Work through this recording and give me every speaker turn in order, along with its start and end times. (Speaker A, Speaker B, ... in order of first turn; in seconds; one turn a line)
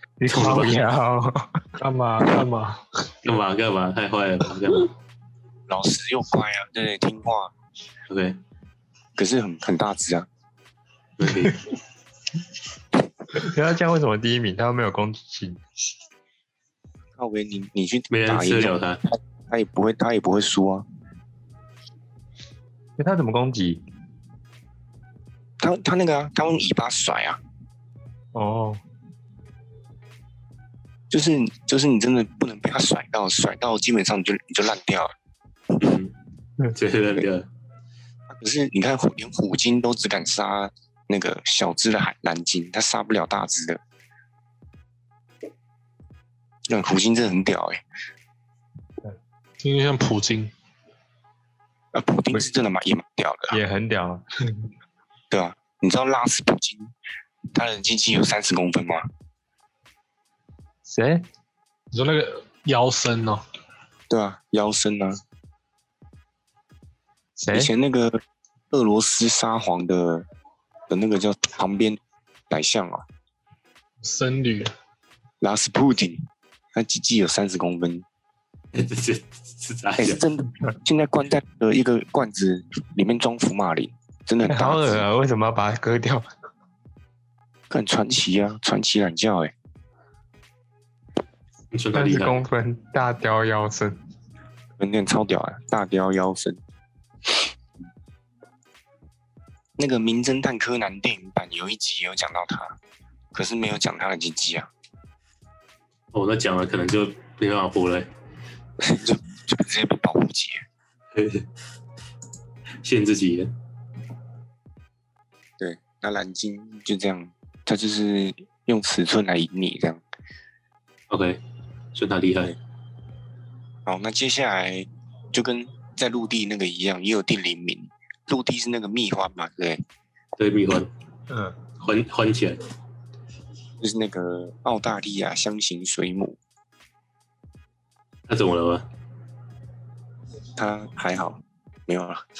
Speaker A: 0.2-1.7
Speaker B: 0.3-0.8
Speaker C: 1.8-2.9
Speaker B: 3.2-4.9
Speaker D: 5.7-7.5
Speaker B: 8.1-8.4
Speaker D: 9.2-10.3
Speaker B: 11.2-11.6
Speaker A: 13.3-15.6
Speaker D: 17.2-20.9
Speaker B: 18.1-19.0
Speaker A: 23.0-23.8
Speaker D: 25.6-27.4
Speaker A: 28.3-28.8
Speaker D: 31.1-35.1
Speaker B: 35.8-36.1
Speaker B: 36.8-37.5
Speaker D: 38.3-43.8
Speaker D: 46.7-47.8
Speaker C: 49.6-50.5
Speaker D: 51.9-53.6
Speaker A: 53.5-54.7
Speaker D: 55.3-56.9
Speaker D: 57.5-59.0
Speaker A: 60.9-61.2
Speaker C: 61.9-63.4
Speaker D: 64.1-65.2
Speaker A: 67.4-67.7
Speaker D: 67.5-68.2
Speaker D: 68.7-70.2
Speaker D: 70.9-72.0
Speaker D: 72.5-73.0
Speaker C: 74.0-74.7
Speaker D: 75.4-78.1
Speaker B: 78.7-80.2
Speaker D: 80.0-85.1
Speaker A: 84.5-86.2
Speaker D: 87.7-89.5
Speaker B: 91.7-92.4
Speaker A: 91.9-94.0
Speaker D: 94.8-96.6
Speaker D: 99.8-102.8
Speaker D: 103.3-104.7
Speaker B: 106.1-108.1
Speaker D: 108.8-110.7
Speaker B: 111.1-111.5
Speaker B: 112.8-113.5
Speaker D: 115.6-120.0
Speaker B: 121.1-121.4
Speaker B: 121.9-122.6
Speaker D: 123.8-129.8
Speaker B: 130.4-130.9
Speaker A: 131.3-131.6
Speaker B: 131.8-132.6
Speaker D: 133.8-136.4
Speaker B: 138.3-138.8
Speaker D: 140.6-142.2